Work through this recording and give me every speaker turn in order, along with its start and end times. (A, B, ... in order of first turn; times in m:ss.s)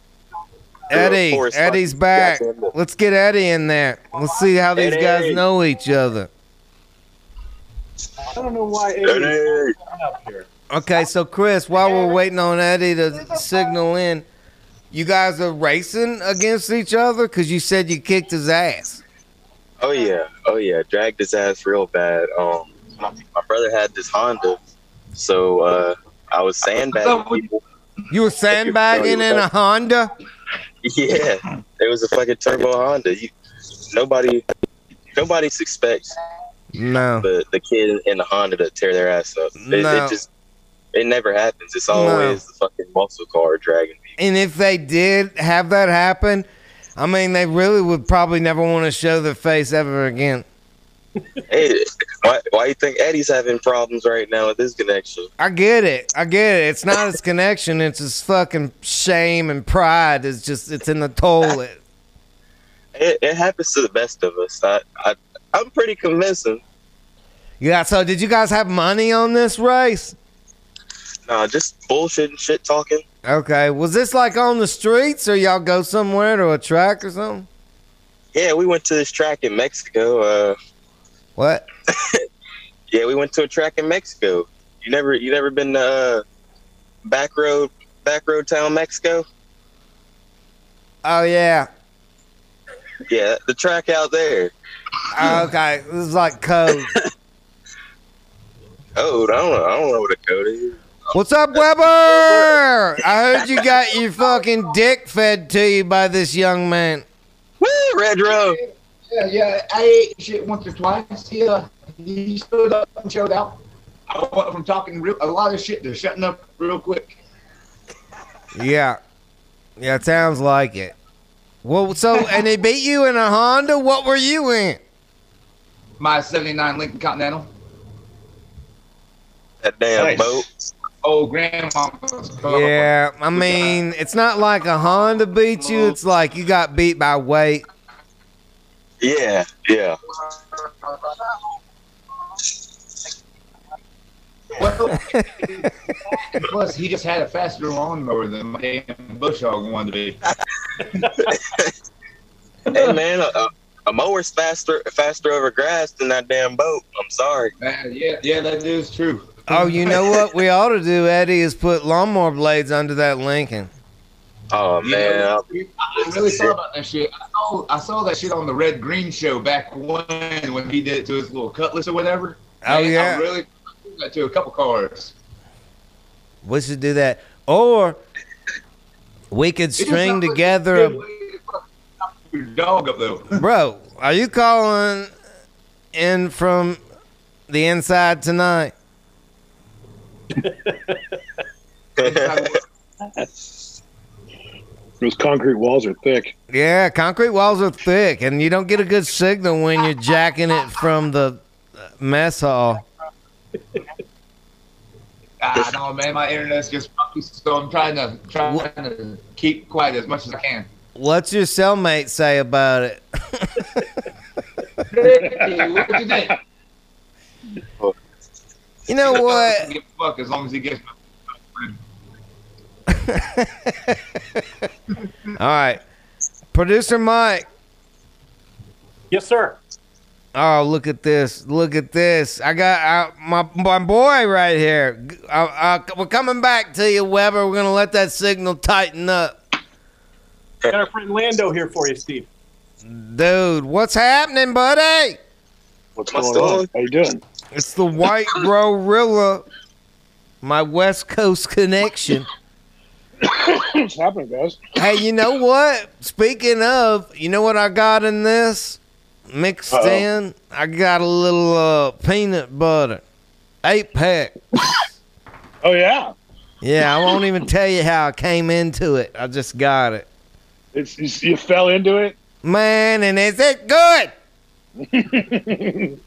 0:00.9-0:06.3 A
0:00.9-0:02.7 B
0:04.8-0:05.4 B
0:08.2-0:10.5 C
0:09.0-0:09.7 B
0:10.7-0:14.2 A
0:14.9-0:19.0 A
0:19.8-0:24.6 B
0:25.1-0:27.5 B
0:26.7-0:27.5 D
0:28.1-0:30.1 A
0:28.6-0:29.4 B
0:30.8-0:33.3 B
0:33.9-0:34.4 B
0:35.1-0:36.1 B
0:36.7-0:37.3 A
0:37.2-0:40.3 B
0:39.6-0:40.2 A
0:40.9-0:44.1 B
0:41.9-0:42.4 A
0:44.2-0:46.4 A
0:47.0-0:50.4 A
0:51.5-0:55.3 B
0:55.4-1:01.8 A
1:02.9-1:06.6 B
1:07.6-1:10.1 A
1:11.2-1:13.0 B
1:13.2-1:17.5 A
1:18.3-1:20.6 B
1:21.4-1:21.6 A
1:21.9-1:22.2 B
1:22.9-1:26.2 B
1:27.0-1:29.2 B
1:31.0-1:31.7 A
1:33.1-1:34.5 B
1:35.1-1:36.9 A
1:39.0-1:40.8 B
1:41.1-1:47.0 A
1:41.5-1:42.6 B
1:47.6-1:48.6 B
1:48.3-1:53.6 D
1:54.1-1:57.1 D
1:58.6-1:59.0 A
1:59.8-2:00.9 A
2:01.6-2:04.8 A
2:06.0-2:07.5 D
2:09.6-2:10.6 B
2:10.0-2:10.4 D
2:11.0-2:12.9 D
2:12.4-2:17.6 A
2:19.0-2:20.0 B
2:24.6-2:25.7 D
2:26.3-2:30.2 D
2:32.7-2:37.5 B
2:37.6-2:40.2 D
2:39.5-2:43.7 A
2:44.5-2:45.4 B
2:44.8-2:55.1 D
2:46.2-2:46.5 B
2:52.6-2:53.2 A
2:56.4-2:58.0 A
2:59.3-3:01.0 A
2:59.8-3:01.6 D
3:02.2-3:03.4 D
3:03.4-3:05.1 A
3:05.9-3:06.8 A
3:07.5-3:08.7 A
3:12.0-3:12.4 B
3:12.0-3:12.6 D
3:15.0-3:16.3 E
3:16.5-3:22.8 A
3:25.4-3:30.7 D
3:30.9-3:33.4 A
3:34.9-3:36.4 D
3:38.9-3:39.7 A
3:39.0-3:40.9 D
3:41.5-3:41.8 D
3:42.9-3:44.0 A
3:45.4-3:45.8 A
3:46.5-3:47.4 A
3:49.1-3:49.6 C
3:50.4-3:59.4 A
4:00.7-4:02.3 C
4:02.8-4:05.2 A
4:06.0-4:07.2 E
4:06.1-4:06.7 B
4:07.5-4:09.4 A
4:10.4-4:12.3 A
4:13.2-4:14.6 E
4:14.8-4:18.8 A
4:19.3-4:23.0 A
4:19.7-4:20.0 E
4:23.6-4:24.3 A
4:25.6-4:26.1 E
4:26.6-4:30.1 A
4:30.7-4:32.2 E
4:32.4-4:34.1 A
4:34.8-4:35.9 E